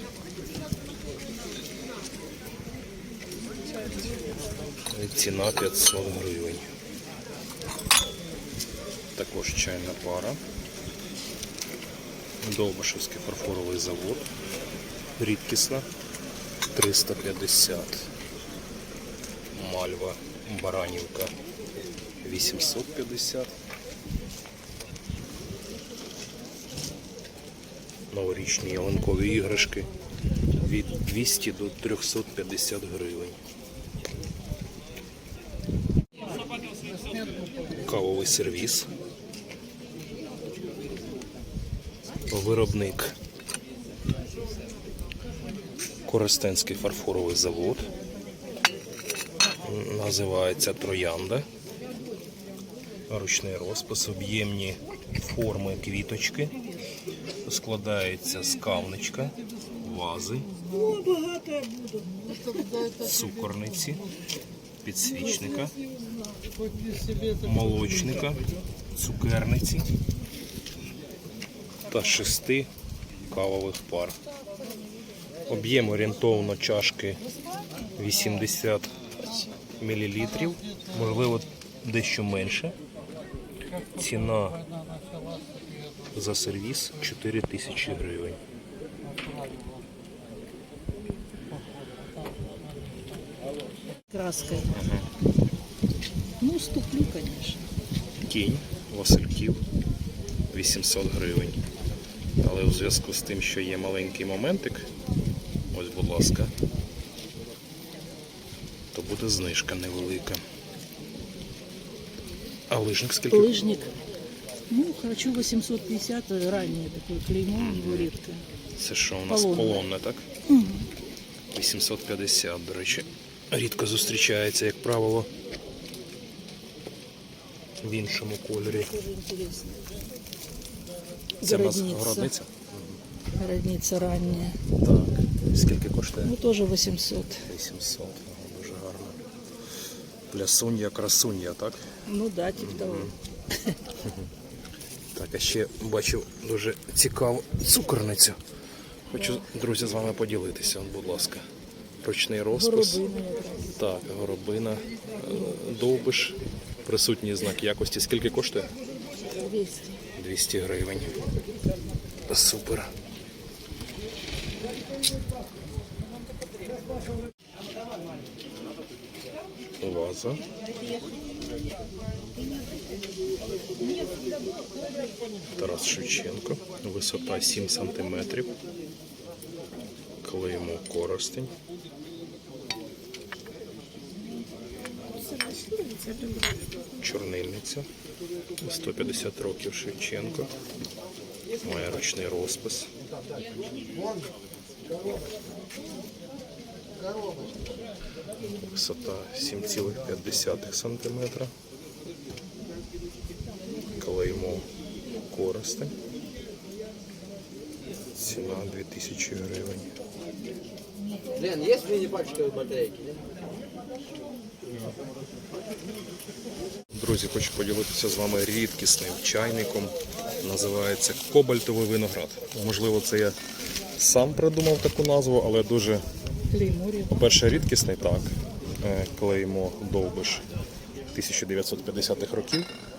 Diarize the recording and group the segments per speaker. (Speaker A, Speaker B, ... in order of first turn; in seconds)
Speaker A: 4.9-6.7, 9.2-10.4, 12.4-14.2, 15.2-15.9, 16.7-18.1, 19.5-21.3, 22.2-23.5, 28.1-29.9, 30.6-33.4, 37.8-38.9, 42.3-43.1, 46.0-47.9, 49.6-51.5, 53.1-56.5, 57.5-60.5, 63.0-64.0, 64.8-65.7, 67.4-68.4, 68.9-69.9, 71.9-72.7, 73.3-74.2, 75.5-77.2, 78.0-78.9, 79.8-82.8, 83.9-84.6, 86.1-88.4, 94.7-95.0, 98.2-99.6, 100.5-101.6, 102.4-104.9, 105.7-106.5, 108.9-110.4, 112.7-113.5, 117.5-118.1, 118.8-120.3, 121.5-125.3, 127.8-128.9, 131.4-133.0, 134.8-136.3, 137.5-139.2, 140.3-141.9, 142.6-143.1, 145.1-148.4, 149.1-151.4, 152.0-153.0, 153.7-158.7, 160.2-161.2, 162.3-162.9, 169.8-170.4, 175.6-178.5, 180.2-181.5, 187.0-187.9, 188.6-190.5, 191.6-192.9, 198.4-201.5, 204.0-204.7, 205.3-205.9, 208.1-209.9, 216.9-223.3, 224.0-226.0, 227.1-230.4, 231.1-232.7
Speaker B: 60.7-61.9, 94.1-94.7, 96.4-97.6, 113.3-113.9, 114.7-118.4, 119.3-119.9, 120.5-120.9, 128.6-129.9, 131.4-132.3, 133.4-134.6, 136.2-137.4, 142.1-143.8, 149.2-149.4, 152.5-153.8, 159.3-160.0, 185.1-186.6, 226.5-227.2
Speaker C: 170.7-171.3, 172.3-172.9, 173.8-174.2, 211.5-212.7